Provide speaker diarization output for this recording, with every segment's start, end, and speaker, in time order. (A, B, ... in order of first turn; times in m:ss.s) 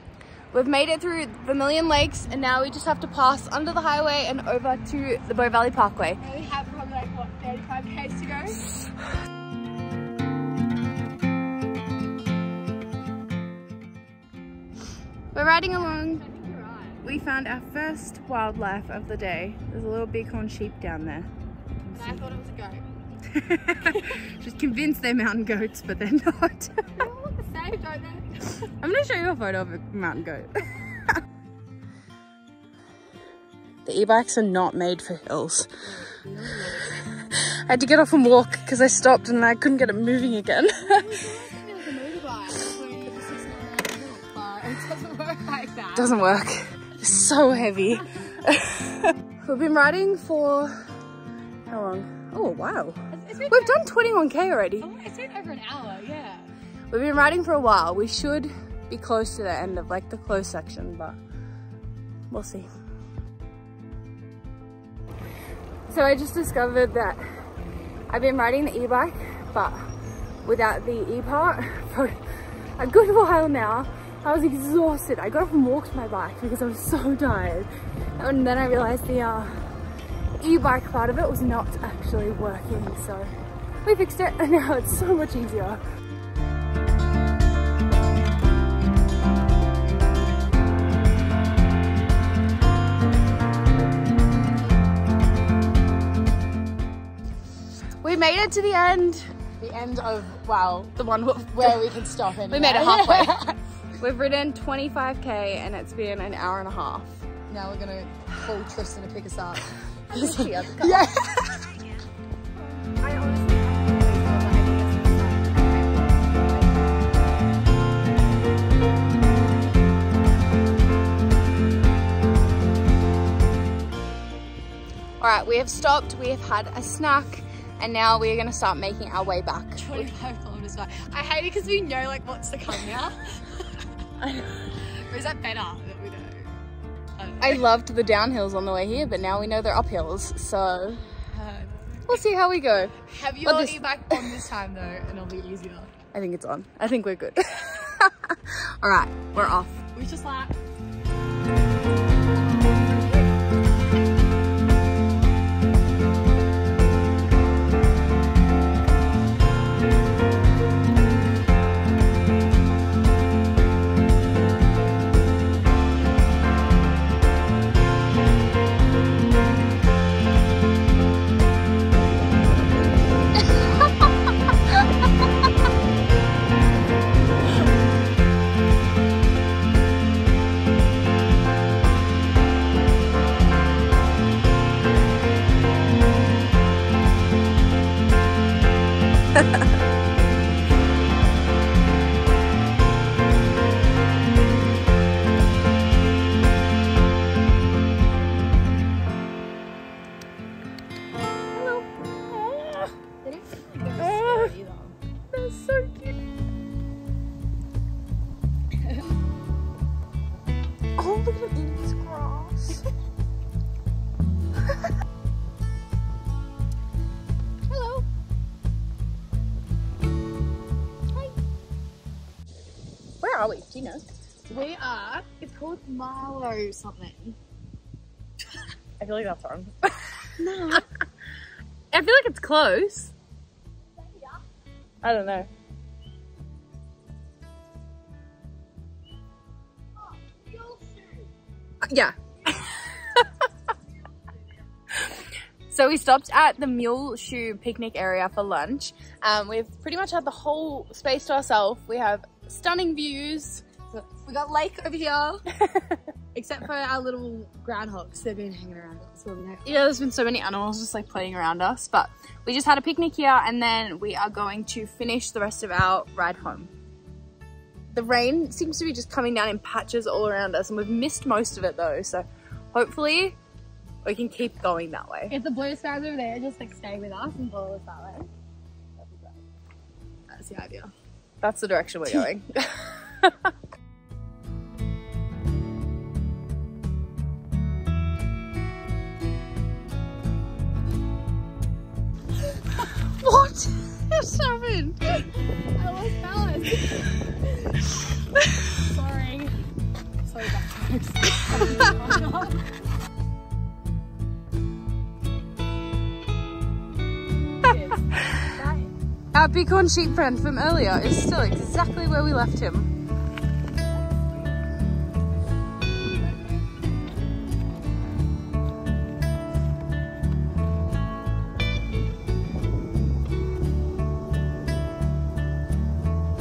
0:00.5-0:06.2 A
0:06.2-0:08.6 B
0:15.3-0:16.2 A
0:15.8-0:17.0 B
0:17.0-0:21.3 A
0:21.9-0:22.4 A
0:21.9-0:22.9 B
0:23.3-0:27.1 A
0:27.0-0:28.5 B
0:28.6-0:31.2 A
0:33.8-0:35.7 A
0:35.9-0:37.0 B
0:37.2-0:41.1 A
0:40.8-0:46.2 B
0:46.0-0:50.7 A
0:51.7-0:54.9 A
0:53.1-0:53.8 B
0:54.8-0:56.5 B
0:56.9-1:01.2 A
1:02.3-1:02.7 A
1:05.9-1:07.4 A
1:08.1-1:09.9 A
1:10.4-1:19.5 A
1:20.4-1:23.3 A
1:23.8-1:25.8 A
1:38.0-1:39.3 A
1:39.6-1:40.9 B
1:41.0-1:41.9 A
1:41.6-1:43.6 B
1:42.5-1:43.4 A
1:44.0-1:47.1 A
1:47.5-1:51.8 B
1:50.1-1:51.2 A
1:53.0-1:56.9 B
2:05.2-2:10.1 A
2:09.8-2:13.7 B
2:14.2-2:14.6 A
2:14.9-2:16.5 B
2:17.2-2:17.6 B
2:17.4-2:21.0 A
2:21.3-2:22.2 B
2:22.1-2:24.4 A
2:23.1-2:25.9 B
2:26.1-2:29.8 A
2:29.4-2:30.6 B
3:21.5-3:22.9 A
3:23.2-3:25.0 B
3:24.0-3:24.5 A
3:25.3-3:26.1 A
3:31.0-3:32.8 A
3:37.7-3:38.1 B
3:43.2-3:44.1 A
3:44.5-3:47.4 B
3:49.0-3:50.8 A
3:50.4-3:50.8 B
3:51.9-3:53.1 A
3:55.0-3:55.5 A
4:00.4-4:01.3 B
4:01.9-4:03.3 A
4:05.7-4:13.7 A
4:13.9-4:15.4 B
4:15.5-4:15.9 A
4:16.3-4:19.7 B
4:19.6-4:26.7 A
4:27.9-4:33.4 A
4:34.0-4:35.4 A
4:35.3-4:38.3 B
4:39.0-4:39.3 B
4:40.3-4:40.9 B
4:41.4-4:43.5 A
4:52.9-4:55.2 A
4:55.7-4:57.7 B
4:58.8-4:59.6 B
5:00.2-5:02.6 B
5:07.7-5:08.0 B
5:08.2-5:08.4 A
5:08.6-5:08.9 B
5:09.3-5:12.9 A